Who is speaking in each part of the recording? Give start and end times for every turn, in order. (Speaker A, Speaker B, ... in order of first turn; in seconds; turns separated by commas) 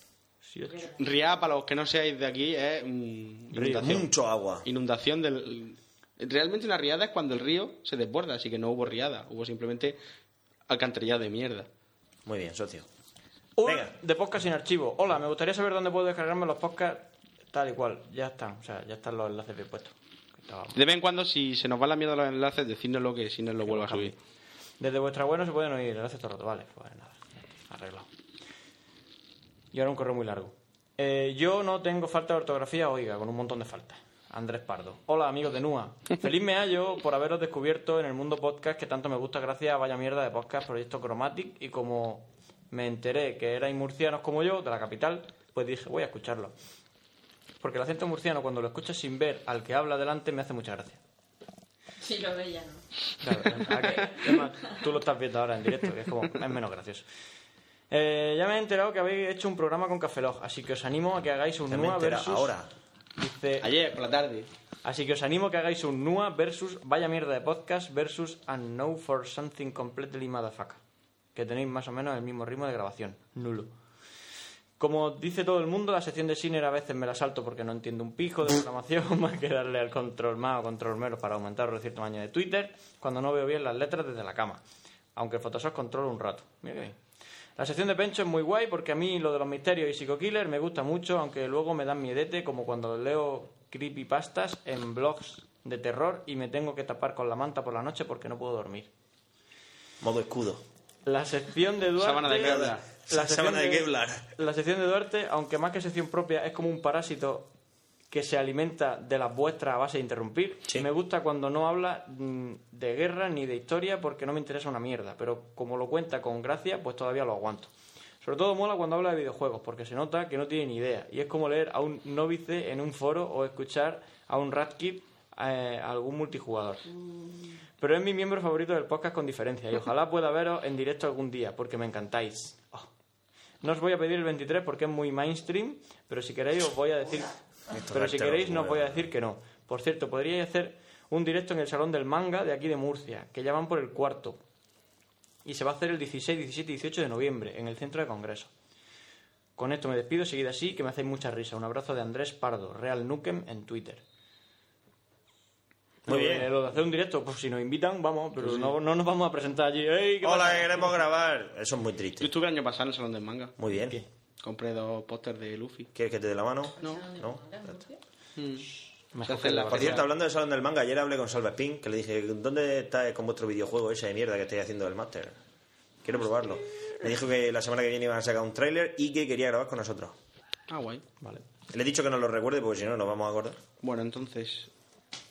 Speaker A: 0.4-0.9, Speaker B: 0.7-1.0, Speaker C: 1.0-4.1, Speaker A: 3.5-4.1, Speaker D: 3.8-4.7, Speaker C: 4.6-10.0, Speaker C: 10.7-11.7, Speaker D: 12.3-12.9, Speaker A: 13.6-20.8, Speaker D: 13.7-13.9, Speaker C: 20.7-24.2, Speaker A: 23.6-24.1, Speaker A: 24.8-28.1, Speaker A: 29.7-46.5, Speaker A: 47.6-51.0, Speaker B: 52.0-52.8, Speaker A: 53.2-57.1, Speaker B: 53.7-54.8, Speaker A: 57.9-62.5, Speaker D: 61.7-62.7, Speaker A: 63.2-63.7, Speaker C: 63.6-64.5, Speaker A: 64.8-70.8, Speaker A: 71.3-73.7, Speaker A: 74.8-84.6, Speaker A: 85.2-87.0, Speaker A: 87.6-98.9, Speaker D: 100.0-100.6, Speaker A: 101.0-107.5, Speaker C: 102.0-102.9, Speaker D: 102.3-104.2, Speaker A: 108.1-117.7, Speaker A: 118.2-126.9, Speaker A: 127.8-132.9, Speaker A: 133.6-137.4, Speaker D: 137.7-139.0, Speaker A: 137.9-144.4, Speaker A: 145.4-148.5, Speaker A: 149.6-154.0, Speaker D: 156.1-156.5, Speaker A: 156.1-161.0, Speaker C: 158.4-158.7, Speaker D: 160.2-162.3, Speaker C: 162.2-163.6, Speaker D: 163.6-164.0, Speaker A: 163.7-164.1, Speaker C: 164.4-165.9, Speaker D: 165.9-167.4, Speaker B: 166.8-168.0, Speaker C: 168.4-168.7, Speaker A: 169.1-170.1, Speaker C: 169.2-170.1, Speaker D: 169.7-175.4, Speaker D: 176.0-180.2, Speaker C: 180.7-181.0, Speaker D: 181.7-183.6, Speaker C: 183.8-184.7